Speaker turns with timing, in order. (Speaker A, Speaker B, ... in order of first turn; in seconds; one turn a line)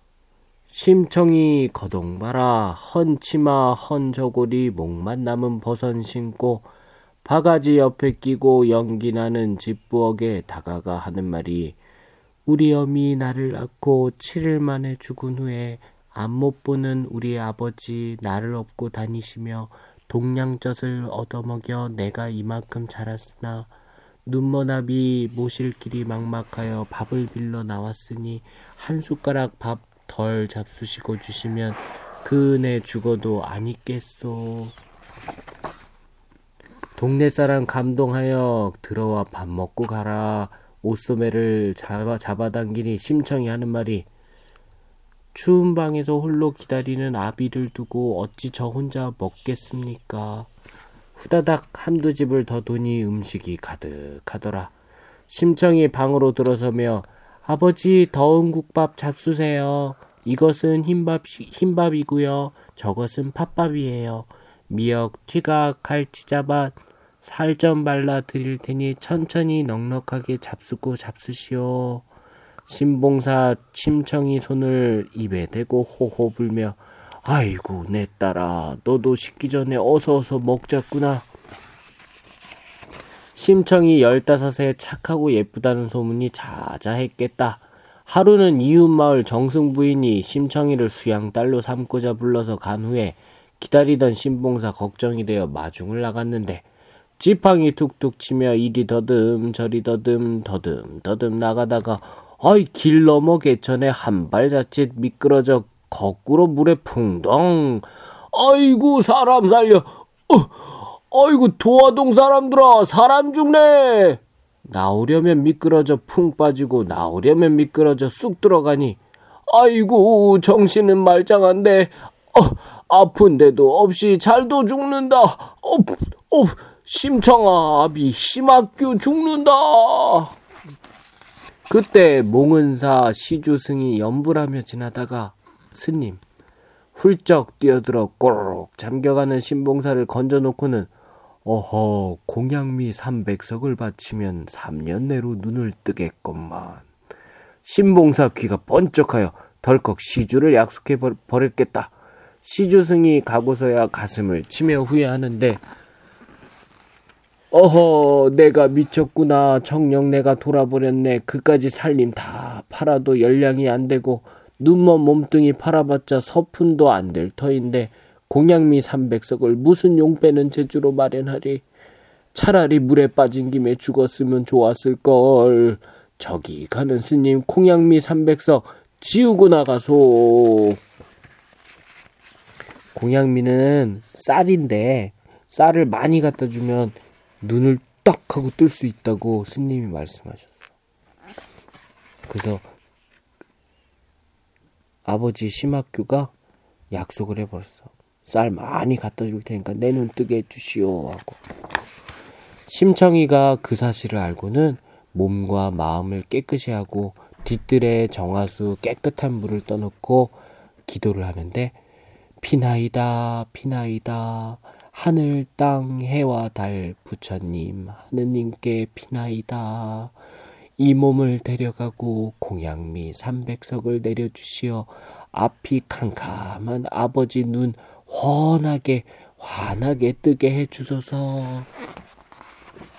Speaker A: 0.7-6.7
Speaker A: 7.2-11.8
Speaker A: 12.5-23.7
Speaker A: 24.3-34.8
Speaker A: 37.0-44.1
Speaker A: 45.3-50.5
Speaker A: 51.2-54.7
Speaker A: 55.3-72.0
Speaker A: 72.7-81.3
Speaker A: 83.3-96.7
Speaker A: 97.2-130.3
Speaker A: 131.7-136.2
Speaker A: 137.0-140.9
Speaker A: 141.4-146.9
Speaker A: 147.6-155.6
Speaker A: 157.5-171.7
Speaker A: 172.3-180.8
Speaker A: 182.9-190.6
Speaker A: 192.3-192.7
Speaker A: 195.1-196.3
Speaker A: 196.9-201.4
Speaker A: 202.7-211.8
Speaker A: 212.4-220.2
Speaker A: 220.8-231.7